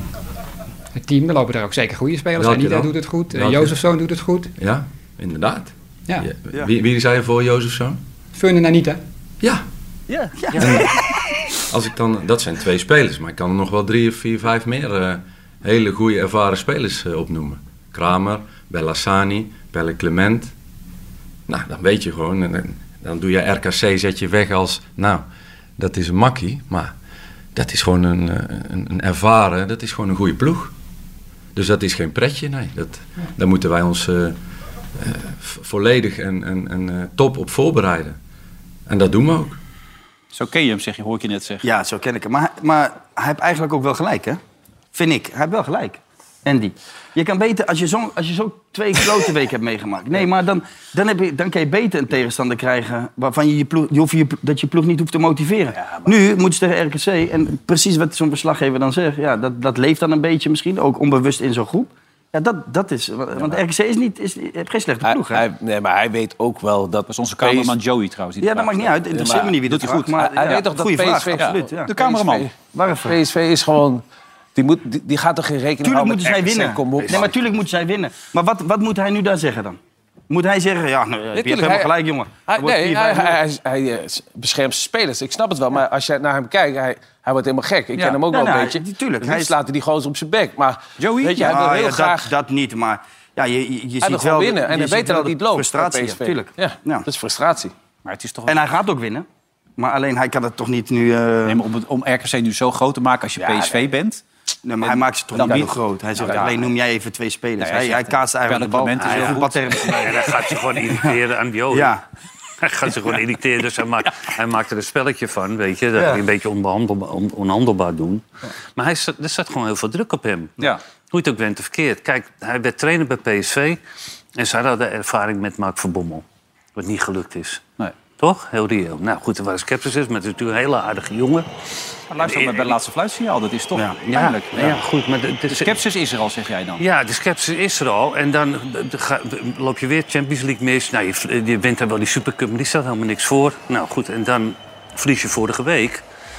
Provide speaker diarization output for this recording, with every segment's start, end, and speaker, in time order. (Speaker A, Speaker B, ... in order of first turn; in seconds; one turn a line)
Speaker A: 0.9-4.5
Speaker B: 2.4-3.8
Speaker B: 4.6-8.0
Speaker A: 8.3-9.0
Speaker C: 10.4-11.2
Speaker B: 10.6-10.9
Speaker B: 11.7-20.5
Speaker B: 21.5-25.2
Speaker B: 25.8-26.9
Speaker B: 27.5-30.7
Speaker B: 31.6-34.4
Speaker B: 35.0-38.2
Speaker B: 38.9-39.6
Speaker D: 40.3-41.6
Speaker C: 41.6-44.4
Speaker C: 44.9-65.4
Speaker E: 55.8-56.1
Speaker E: 65.0-67.8
Speaker D: 67.1-69.0
Speaker C: 68.4-71.9
Speaker E: 69.1-72.5
Speaker D: 69.7-70.2
Speaker D: 71.4-72.5
Speaker C: 72.7-73.2
Speaker E: 73.1-74.0
Speaker E: 74.5-77.3
Speaker C: 75.8-79.8
Speaker F: 77.0-77.3
Speaker C: 80.3-83.4
Speaker E: 81.3-81.9
Speaker E: 82.5-92.3
Speaker D: 88.0-88.2
Speaker C: 88.3-89.6
Speaker D: 91.0-91.6
Speaker C: 91.4-97.1
Speaker E: 94.0-97.7
Speaker D: 98.1-98.6
Speaker C: 98.5-99.3
Speaker C: 99.8-101.6
Speaker D: 101.5-104.2
Speaker E: 103.4-103.8
Speaker C: 104.7-110.2
Speaker D: 104.8-106.7
Speaker D: 107.6-109.9
Speaker F: 109.0-112.0
Speaker C: 111.7-112.0
Speaker F: 112.6-118.2
Speaker F: 118.8-120.6
Speaker F: 121.1-123.8
Speaker F: 124.4-126.2
Speaker F: 126.8-127.6
Speaker F: 128.2-131.5
Speaker D: 132.1-134.8
Speaker F: 132.2-132.8
Speaker F: 134.1-135.8
Speaker D: 135.5-136.8
Speaker F: 136.8-146.0